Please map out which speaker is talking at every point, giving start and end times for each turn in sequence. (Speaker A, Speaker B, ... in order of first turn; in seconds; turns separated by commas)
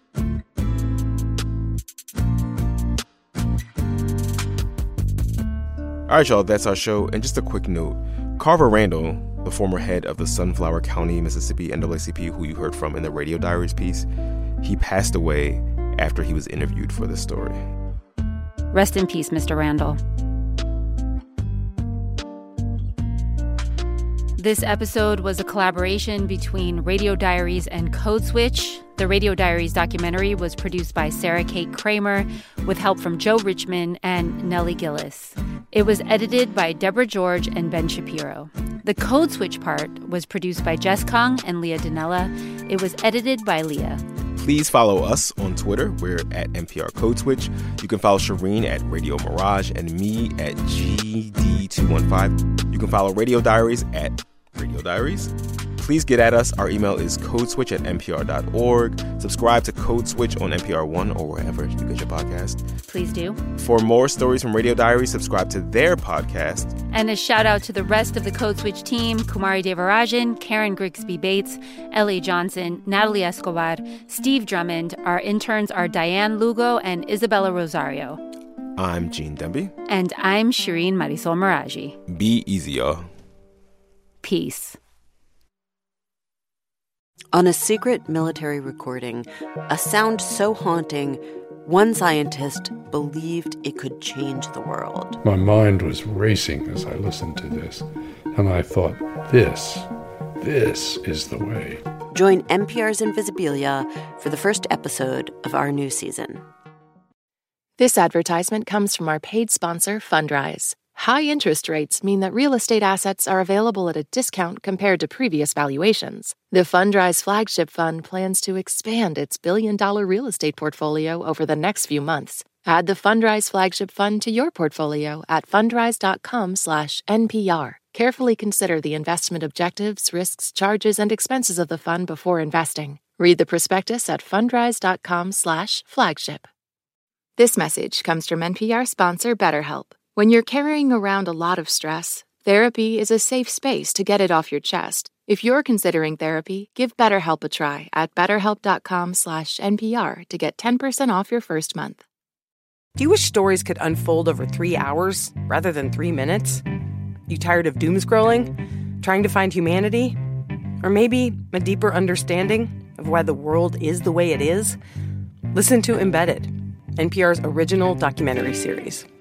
Speaker A: 6.1-14.1, Speaker A: 14.6-17.6, Speaker B: 18.7-20.0, Speaker B: 24.4-44.0, Speaker A: 44.4-62.6, Speaker B: 62.9-63.4, Speaker A: 63.5-66.7, Speaker B: 66.9-78.2, Speaker A: 78.8-79.7, Speaker B: 79.9-82.0, Speaker A: 82.1-83.1, Speaker B: 84.2-84.8, Speaker C: 87.3-95.2, Speaker D: 95.2-99.9, Speaker D: 100.4-101.8, Speaker C: 102.1-106.4, Speaker E: 107.8-136.5, Speaker E: 137.4-152.0, Speaker F: 153.0-156.6, Speaker F: 157.3-160.2, Speaker F: 160.8-164.8, Speaker F: 165.5-169.1